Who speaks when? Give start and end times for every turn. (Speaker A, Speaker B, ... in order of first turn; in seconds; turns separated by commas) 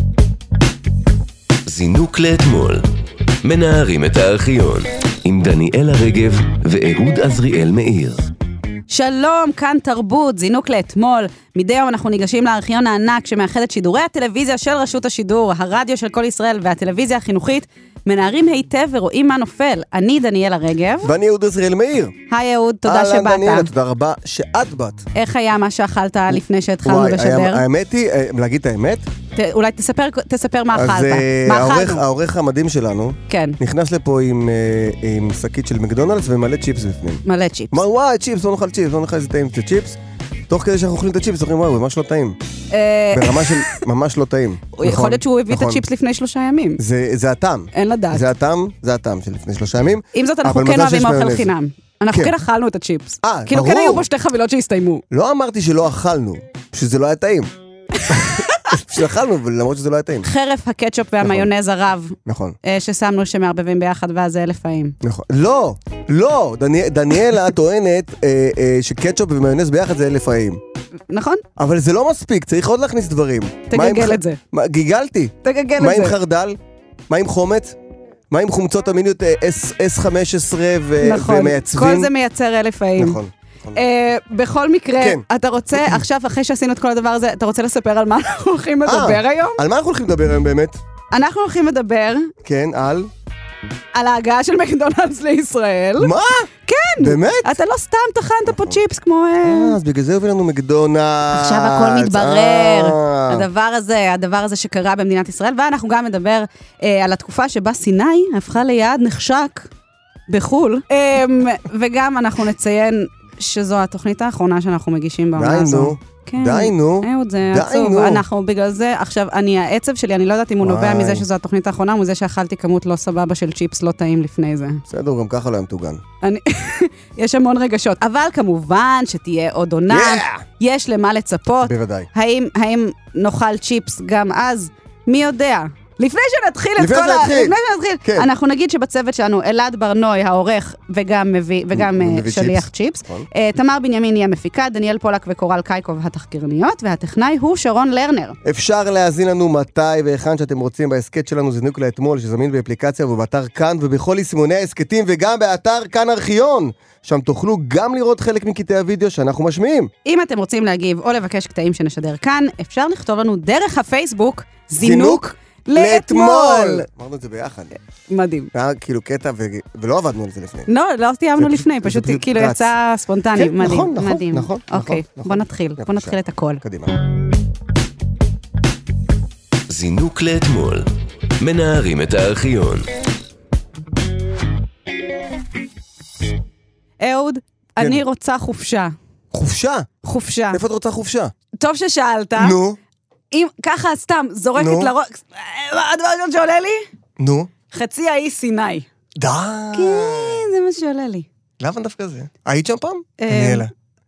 Speaker A: 1.6-2.8, Speaker A: 3.4-8.3, Speaker B: 8.9-21.1, Speaker C: 21.0-22.1, Speaker B: 22.3-23.7, Speaker C: 22.8-25.1, Speaker B: 25.1-27.6, Speaker C: 26.3-29.1, Speaker B: 29.3-32.0, Speaker C: 30.7-40.0, Speaker B: 33.3-33.6, Speaker B: 37.2-37.8, Speaker C: 40.5-42.4, Speaker B: 42.7-43.8, Speaker C: 43.1-45.8, Speaker B: 44.8-46.8, Speaker C: 46.8-51.5, Speaker B: 47.7-48.2, Speaker B: 50.1-55.0, Speaker C: 53.2-54.0, Speaker C: 55.1-57.5, Speaker B: 58.0-58.8, Speaker C: 58.1-60.3, Speaker B: 60.2-65.0, Speaker C: 61.2-61.5, Speaker C: 62.2-62.5, Speaker C: 65.0-70.6, Speaker B: 71.1-71.4, Speaker C: 71.6-76.5, Speaker B: 73.7-74.4, Speaker B: 75.4-76.2, Speaker C: 77.1-77.8, Speaker C: 78.3-82.1, Speaker B: 81.0-83.2, Speaker C: 83.0-83.8, Speaker B: 83.7-89.6, Speaker C: 85.0-85.2, Speaker C: 88.8-90.8, Speaker B: 91.1-92.3, Speaker C: 92.4-93.1, Speaker B: 93.9-96.1, Speaker C: 96.0-96.5, Speaker B: 96.7-99.8, Speaker C: 97.0-97.5, Speaker C: 98.5-98.8, Speaker C: 99.4-103.5, Speaker B: 101.3-109.7, Speaker B: 110.3-124.8, Speaker C: 115.3-118.2, Speaker C: 120.6-121.2, Speaker C: 124.9-126.0, Speaker B: 126.2-148.4, Speaker C: 129.9-130.4, Speaker C: 131.6-132.1, Speaker C: 136.8-138.3, Speaker C: 141.7-143.3, Speaker C: 148.4-159.9, Speaker B: 160.0-166.8, Speaker C: 164.8-167.7, Speaker B: 168.1-168.5, Speaker C: 168.5-170.7, Speaker B: 170.7-176.6, Speaker C: 171.4-172.7, Speaker C: 173.3-177.0, Speaker A: 179.7-182.9, Speaker B: 187.0-188.9, Speaker C: 189.3-189.9, Speaker B: 190.0-190.6, Speaker C: 190.5-191.3, Speaker B: 191.6-192.6, Speaker C: 192.4-192.8, Speaker B: 193.3-196.8, Speaker C: 194.6-194.9, Speaker C: 197.2-197.5, Speaker B: 197.7-198.9, Speaker C: 199.2-200.4, Speaker B: 199.7-201.3, Speaker C: 201.6-203.7, Speaker B: 203.2-203.6